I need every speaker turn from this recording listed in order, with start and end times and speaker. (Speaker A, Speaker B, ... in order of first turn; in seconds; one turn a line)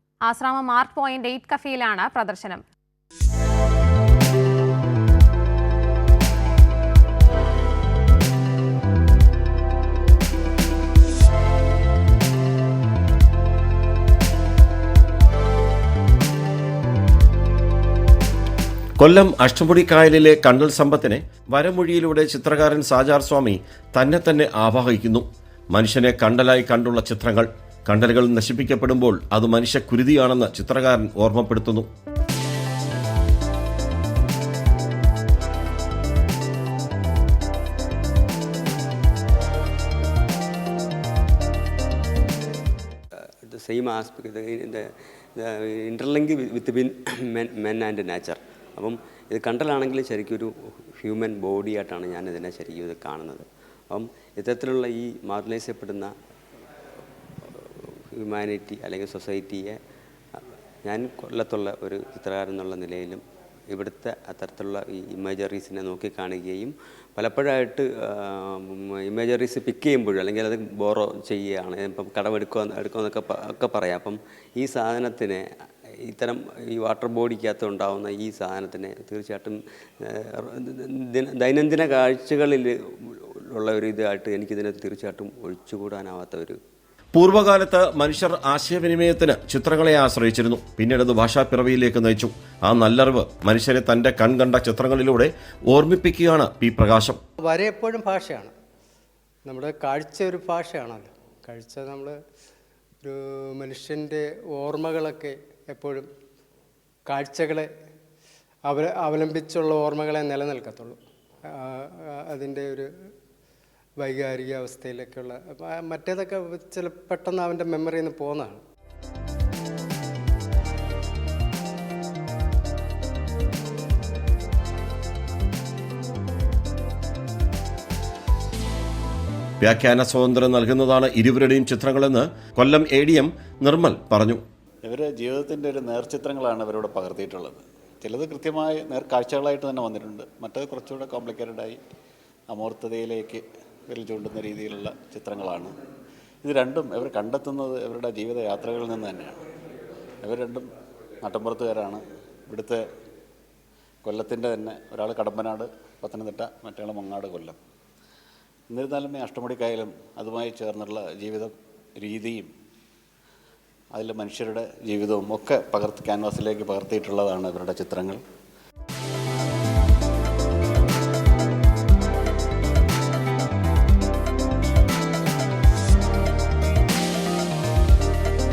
Speaker A: 0.3-2.6
Speaker B: 19.0-31.9
Speaker C: 43.2-44.9
Speaker C: 45.4-56.1
Speaker C: 57.4-59.8
Speaker C: 60.8-75.5
Speaker C: 76.1-86.6
Speaker B: 87.2-97.2
Speaker D: 97.4-98.5
Speaker D: 99.5-102.2
Speaker D: 103.0-106.1
Speaker D: 107.1-107.7
Speaker D: 108.7-111.0
Speaker D: 111.5-112.9
Speaker D: 114.0-118.6
Speaker B: 129.6-134.4
Speaker E: 134.8-141.8
Speaker E: 142.5-145.7
Speaker E: 146.4-149.4
Speaker E: 150.2-150.7
Speaker E: 151.2-152.8
Speaker E: 154.1-157.6
Speaker E: 158.7-162.5
Speaker E: 163.9-168.2